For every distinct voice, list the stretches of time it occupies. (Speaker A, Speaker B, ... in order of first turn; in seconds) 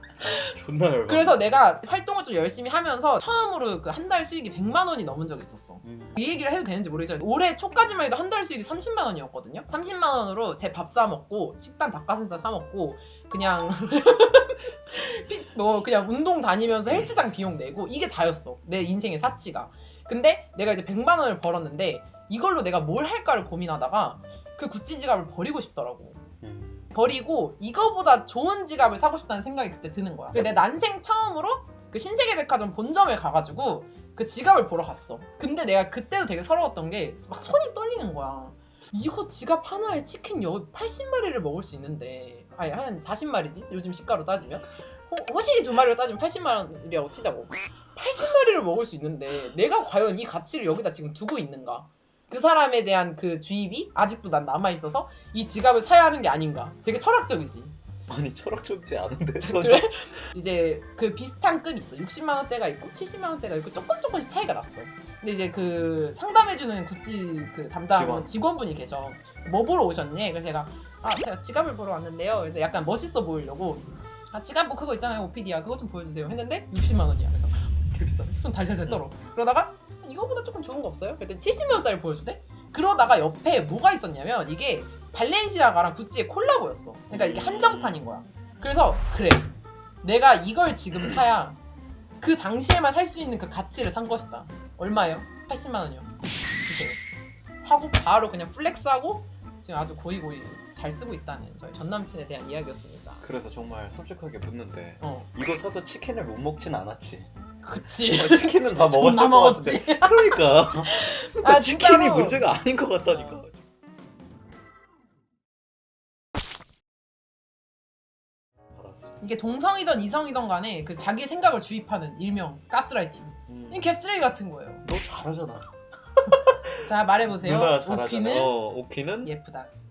Speaker A: 0.2-1.4, 5.8-6.2, 26.4-26.9, 58.1-59.9, 67.9-68.3, 87.1-88.0, 103.2-107.3, 108.1-113.7, 118.8-119.1, 123.5-123.9, 124.8-129.3
Speaker B: 1.1-26.2, 26.9-57.7, 59.4-89.5, 90.0-91.6, 92.2-97.0, 97.6-103.2, 105.0-105.3, 107.6-112.4, 113.1-113.4, 119.2-124.8, 126.8-128.5, 129.2-129.7